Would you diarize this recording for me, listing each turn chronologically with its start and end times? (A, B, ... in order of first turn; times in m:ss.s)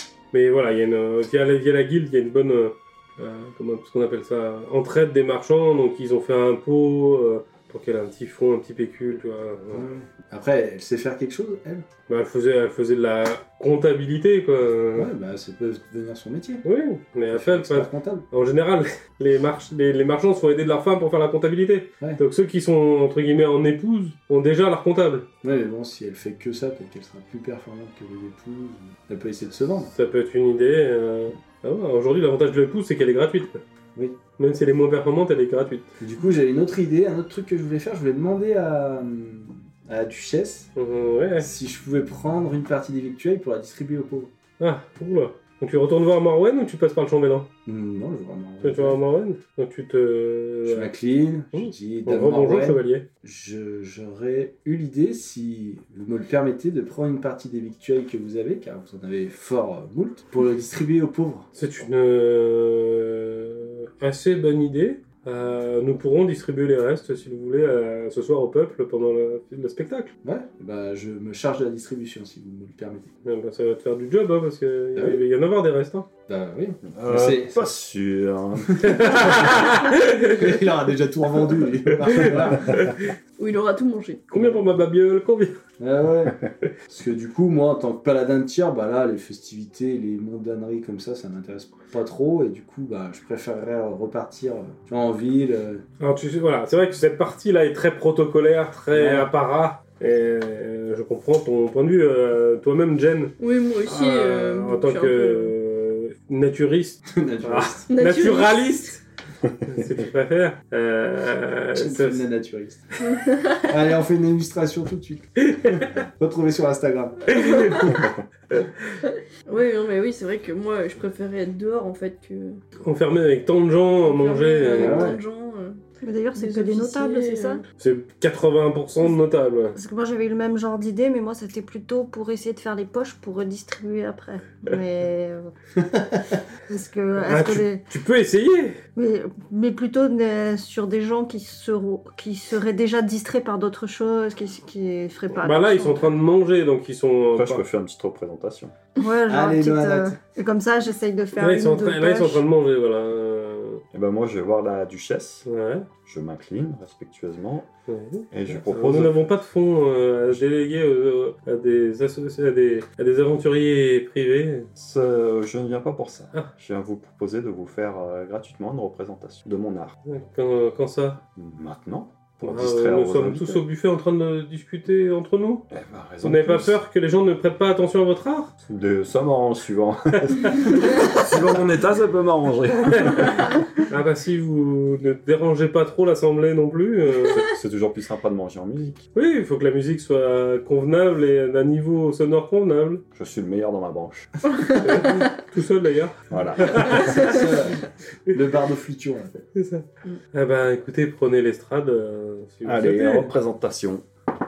0:00.3-0:09.9 A
0:09.7-0:11.9 B
0:12.1-0:15.1 A
0:15.0-0:16.6 B
0:16.6-0:25.3 A
0:17.3-0:18.2 B
0:25.4-0:29.9 B
0:29.9-0:33.6 A
0:34.4-0:35.9 A
0:36.0-0:40.7 B
0:40.8-0:41.5 A
0:41.4-0:44.3 B
0:44.6-0:47.5 A
0:47.7-0:49.0 B
0:48.6-0:50.9 A
0:50.7-1:01.5 B
0:51.5-0:53.1 A
1:01.6-1:10.1 A
1:10.2-1:13.1 B
1:13.2-1:16.1 A
1:15.0-1:15.2 B
1:16.3-1:17.7 B
1:16.9-1:19.6 C
1:18.8-1:20.6 A
1:20.4-1:22.8 B
1:21.9-1:23.1 A
1:23.4-1:24.2 D
1:24.3-1:25.6 A
1:25.8-1:26.4 B
1:26.9-1:35.8 B
1:36.0-1:49.0 A
1:38.9-1:39.3 B
1:43.4-1:45.6 D
1:47.1-1:47.8 B
1:47.9-1:48.8 D
1:49.5-1:49.8 C
1:49.6-1:52.2 A
1:51.8-1:57.6 B
1:53.1-1:53.6 D
1:55.4-1:55.9 A
1:57.3-1:59.0 A
1:59.5-2:02.6 D
2:02.8-2:05.1 A
2:04.0-2:05.8 D
2:04.8-2:05.2 B
2:06.0-2:07.6 E
2:06.3-2:07.6 D
2:07.8-2:09.8 A
2:09.8-2:15.5 E
2:15.9-2:16.2 B
2:16.7-2:17.8 E
2:17.2-2:18.8 A
2:19.0-2:26.2 E
2:25.4-2:27.6 A
2:27.4-2:28.7 C
2:29.0-2:32.4 E
2:29.3-2:30.2 B
2:31.4-2:33.8 A
2:33.9-2:35.5 C
2:35.5-2:35.9 A
2:36.0-2:37.7 C
2:37.9-2:44.7 A
2:38.3-2:39.3 C
2:44.8-2:50.0 C
2:50.1-2:51.2 A
2:51.4-2:53.6 C
2:52.4-2:55.7 A
2:55.7-2:56.8 C
2:56.2-2:58.5 A
2:58.7-3:03.4 C
3:00.4-3:00.8 A
3:02.9-3:07.4 A
3:07.2-3:09.1 C
3:09.2-3:13.0 A
3:13.1-3:14.5 C
3:14.8-3:17.4 A
3:16.3-3:17.3 C
3:17.1-3:19.4 B
3:19.6-3:23.3 A
3:22.6-3:24.0 C